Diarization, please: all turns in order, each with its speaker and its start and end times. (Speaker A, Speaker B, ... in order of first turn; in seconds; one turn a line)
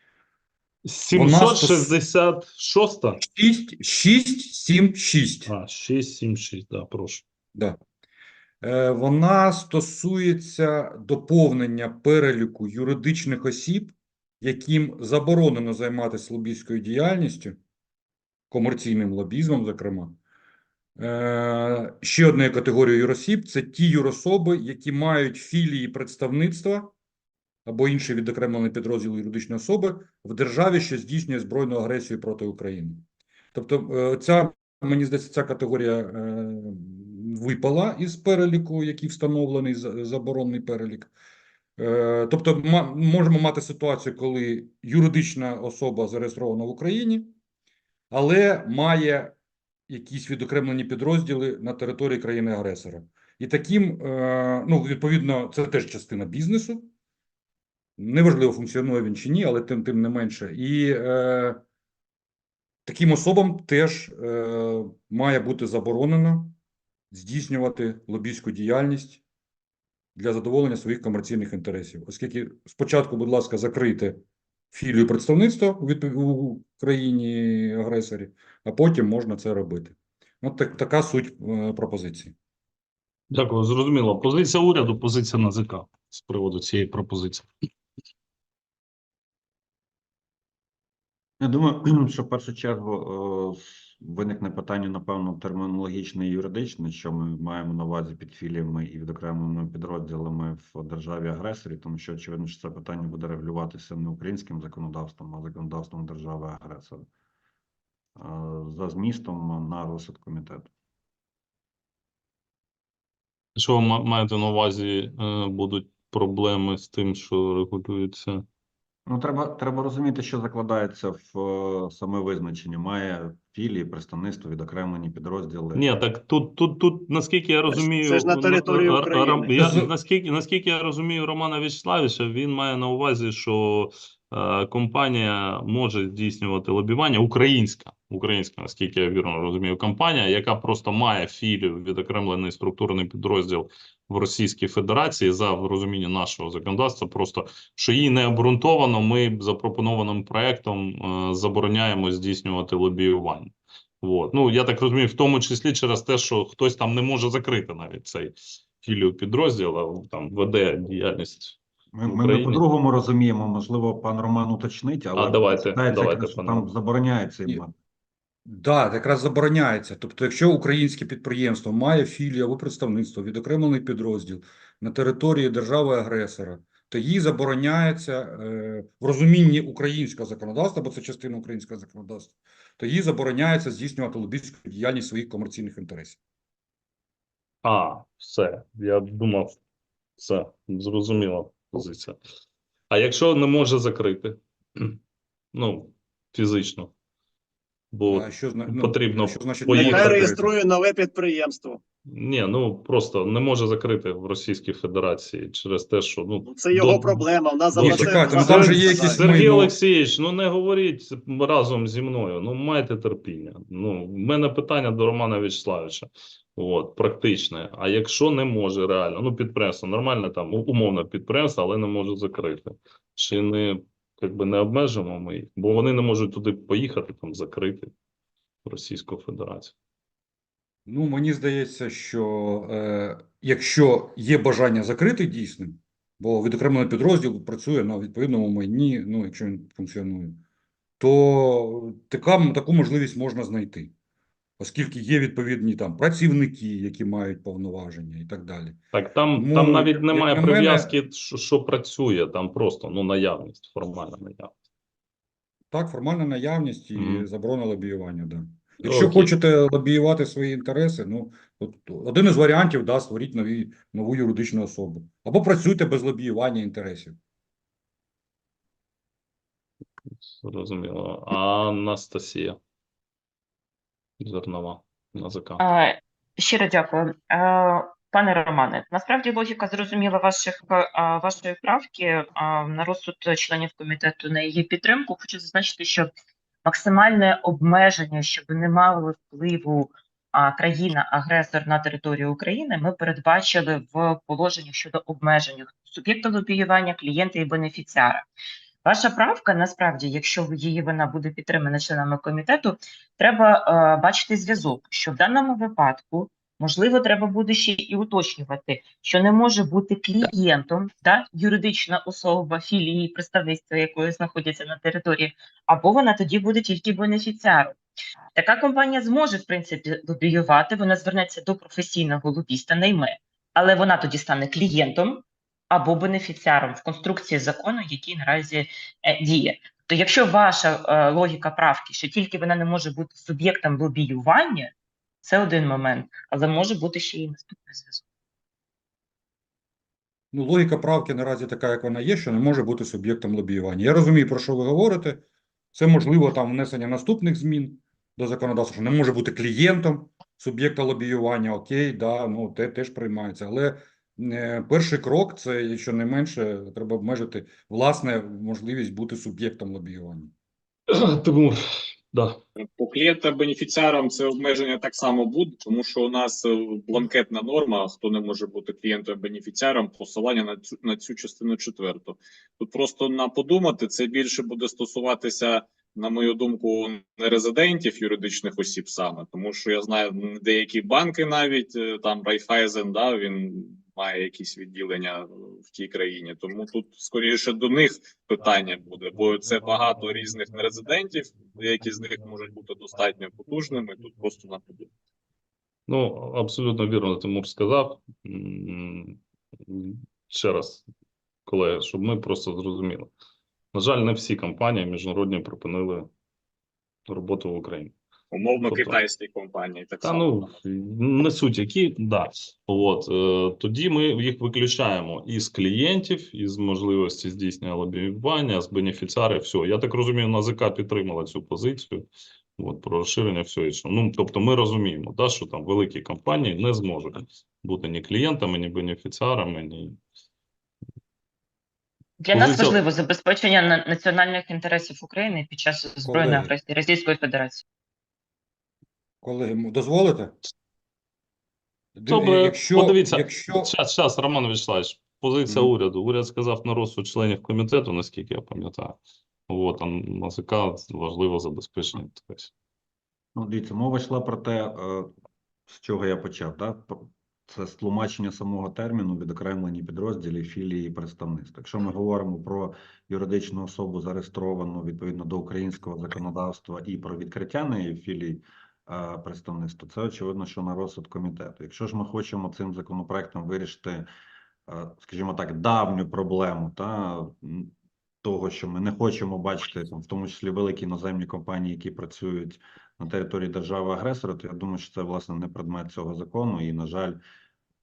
Speaker A: 0.8-3.2
Speaker B: 1.1-1.9
Speaker B: 3.2-5.5
Speaker A: 5.5-7.2
Speaker B: 8.6-17.6
Speaker B: 18.5-20.2
Speaker B: 21.0-26.9
Speaker B: 27.6-41.1
Speaker B: 41.8-47.3
Speaker B: 48.1-49.3
Speaker B: 49.9-56.9
Speaker B: 58.0-61.6
Speaker B: 62.9-66.5
Speaker B: 67.1-69.2
Speaker B: 70.2-74.2
Speaker B: 74.7-82.3
Speaker A: 83.3-87.5
Speaker C: 91.4-107.0
Speaker C: 108.2-110.7
Speaker A: 113.5-118.4
Speaker C: 119.1-125.8
Speaker A: 125.7-162.6
Speaker D: 127.7-129.5
Speaker B: 129.6-129.9
Speaker C: 161.9-167.7
Speaker A: 165.1-166.7
Speaker B: 168.4-186.2
Speaker A: 187.6-189.6
Speaker A: 190.2-192.2
Speaker A: 192.9-195.0
Speaker A: 195.5-196.9
Speaker A: 197.9-200.3
Speaker B: 198.1-200.5
Speaker D: 199.7-201.8
Speaker A: 202.1-227.9
Speaker D: 206.4-209.2
Speaker B: 207.8-209.7
Speaker A: 228.6-229.7
Speaker B: 230.9-240.4
Speaker B: 241.0-243.9
Speaker B: 244.6-248.8
Speaker A: 248.9-254.5
Speaker B: 249.3-250.9
Speaker B: 255.7-267.2
Speaker A: 256.9-257.2
Speaker A: 258.8-259.3
Speaker A: 270.3-272.6
Speaker A: 274.2-275.6
Speaker E: 275.6-286.1
Speaker E: 286.6-298.3
Speaker E: 298.8-317.8
Speaker E: 318.3-334.7
Speaker E: 335.2-338.0
Speaker B: 340.3-360.3
Speaker A: 360.9-361.6
Speaker F: 362.6-394.9
Speaker A: 395.9-400.8
Speaker A: 401.4-403.1
Speaker A: 403.7-406.1
Speaker A: 407.1-407.9
Speaker F: 408.3-410.5
Speaker A: 408.6-409.0
Speaker A: 410.0-430.0
Speaker E: 432.2-437.6
Speaker A: 432.3-432.8
Speaker B: 436.0-436.5
Speaker B: 439.2-440.3
Speaker B: 441.9-443.7
Speaker A: 442.1-449.0
Speaker A: 449.5-452.5
Speaker C: 453.4-455.1
Speaker C: 455.7-474.1
Speaker C: 474.7-487.2